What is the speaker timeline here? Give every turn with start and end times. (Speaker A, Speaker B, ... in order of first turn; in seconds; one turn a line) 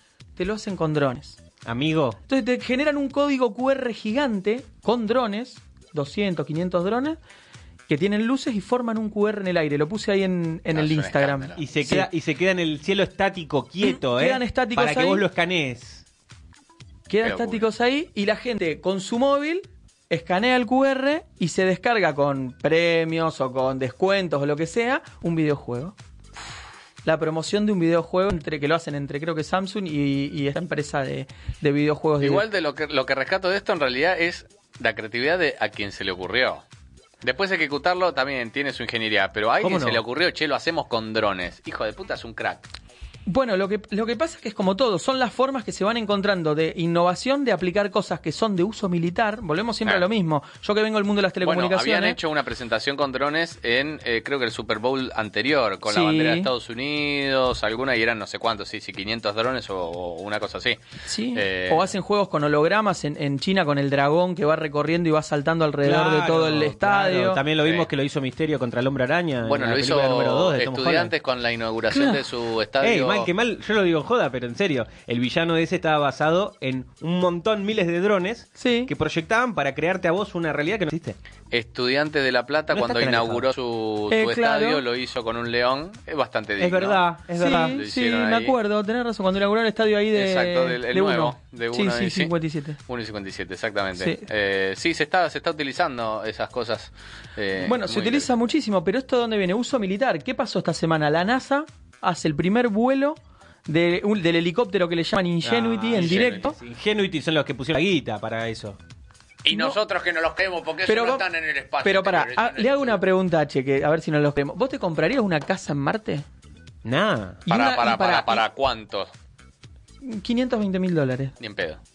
Speaker A: 0.3-1.4
Speaker B: 1.6-2.2
Speaker A: 2.3-7.2
Speaker A: 7.9-12.1
Speaker C: 10.7-11.6
Speaker B: 11.6-16.0
Speaker A: 13.8-15.2
Speaker A: 17.1-25.9
Speaker C: 17.2-17.6
Speaker A: 27.0-32.4
Speaker C: 32.2-36.6
Speaker C: 37.2-42.7
Speaker B: 39.6-40.0
Speaker A: 43.3-52.2
Speaker C: 51.4-60.8
Speaker A: 55.9-56.5
Speaker A: 61.0-67.4
Speaker C: 61.3-61.9
Speaker B: 65.8-71.1
Speaker C: 67.6-67.9
Speaker C: 69.4-73.3
Speaker A: 71.9-72.2
Speaker B: 72.8-81.2
Speaker A: 78.6-78.9
Speaker C: 81.5-88.5
Speaker B: 82.7-83.5
Speaker A: 84.1-84.8
Speaker B: 86.6-87.8
Speaker A: 87.4-92.8
Speaker C: 90.1-92.3
Speaker C: 92.9-98.3
Speaker A: 94.0-94.2
Speaker A: 97.6-106.6
Speaker B: 105.4-108.8
Speaker C: 105.9-106.5
Speaker C: 109.4-113.0
Speaker A: 109.5-109.8
Speaker A: 110.8-111.2
Speaker A: 111.8-116.2
Speaker B: 116.8-117.5
Speaker A: 117.5-118.4
Speaker C: 117.5-119.1
Speaker A: 120.0-121.3
Speaker C: 121.4-121.8